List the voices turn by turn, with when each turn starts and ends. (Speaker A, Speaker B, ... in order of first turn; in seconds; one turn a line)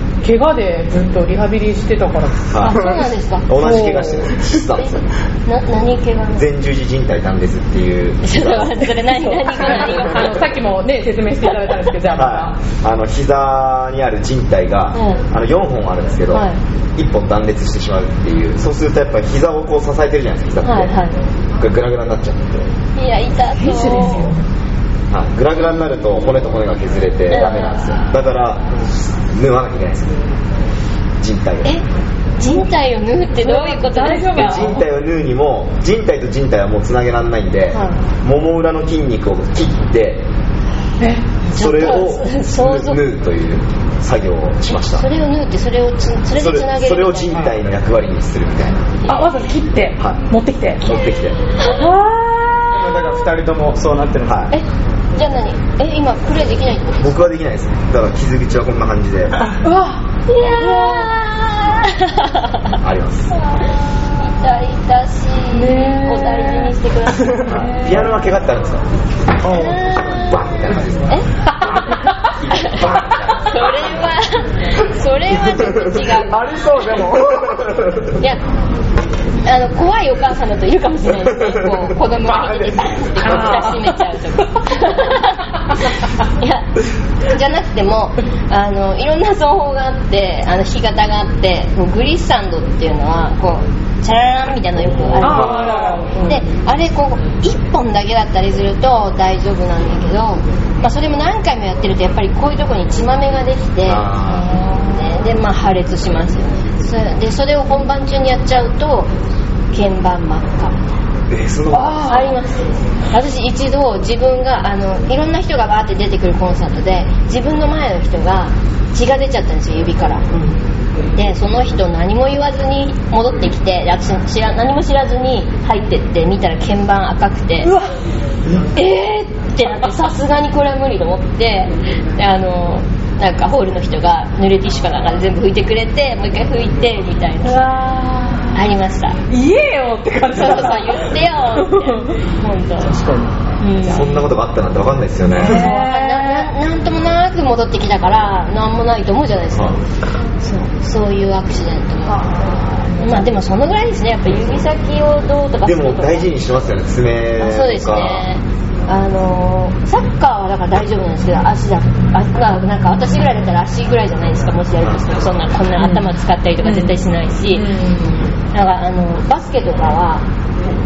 Speaker A: 0.2-2.9
Speaker B: 2.5-5.0
Speaker C: 2.7-4.0
Speaker A: 3.6-4.3
Speaker C: 4.8-6.5
Speaker B: 6.3-8.9
Speaker C: 8.2-10.4
Speaker A: 9.1-12.6
Speaker B: 12.1-21.0
Speaker C: 14.9-15.2
Speaker C: 16.3-16.6
Speaker C: 20.6-21.2
Speaker B: 21.6-22.7
Speaker C: 23.0-24.3
Speaker A: 23.6-24.4
Speaker B: 25.1-30.2
Speaker C: 27.3-28.0
Speaker B: 31.2-31.8
Speaker C: 32.4-34.7
Speaker A: 33.4-34.9
Speaker B: 34.3-40.3
Speaker C: 37.7-38.0
Speaker A: 41.0-41.5
Speaker B: 41.5-45.1
Speaker C: 41.5-43.0
Speaker C: 44.7-47.5
Speaker B: 46.3-49.2
Speaker A: 49.1-51.0
Speaker B: 50.8-51.4
Speaker A: 51.6-53.0
Speaker D: 52.7-54.5
Speaker B: 54.2-54.5
Speaker C: 54.5-57.3
Speaker B: 57.0-59.4
Speaker A: 59.6-61.2
Speaker C: 60.3-67.7
Speaker B: 62.8-63.3
Speaker A: 65.5-66.8
Speaker A: 67.4-68.0
Speaker B: 67.5-68.9
Speaker D: 69.4-69.8
Speaker C: 69.5-71.3
Speaker B: 70.0-71.2
Speaker B: 72.5-74.0
Speaker C: 72.5-77.1
Speaker D: 76.2-77.8
Speaker C: 78.1-78.4
Speaker C: 79.5-109.1
Speaker D: 82.3-82.7
Speaker A: 83.2-84.0
Speaker A: 95.2-96.5
Speaker B: 95.2-95.8
Speaker B: 103.8-104.5
Speaker A: 104.2-105.2
Speaker C: 109.7-110.8
Speaker B: 111.3-112.2
Speaker A: 111.7-112.4
Speaker C: 112.0-120.5
Speaker C: 121.2-127.7
Speaker A: 127.6-127.9
Speaker C: 128.6-137.7
Speaker A: 137.4-138.7
Speaker C: 138.5-139.2
Speaker A: 139.3-142.2
Speaker C: 140.3-142.9
Speaker D: 142.9-143.3
Speaker C: 143.6-144.2
Speaker B: 143.8-145.7
Speaker A: 145.2-146.5
Speaker C: 145.3-149.8
Speaker B: 149.5-149.8
Speaker C: 150.4-156.3
Speaker A: 152.1-153.3
Speaker B: 155.6-158.3
Speaker C: 157.4-170.3
Speaker B: 164.8-165.2
Speaker A: 165.8-166.1
Speaker A: 166.6-167.0
Speaker A: 167.5-168.2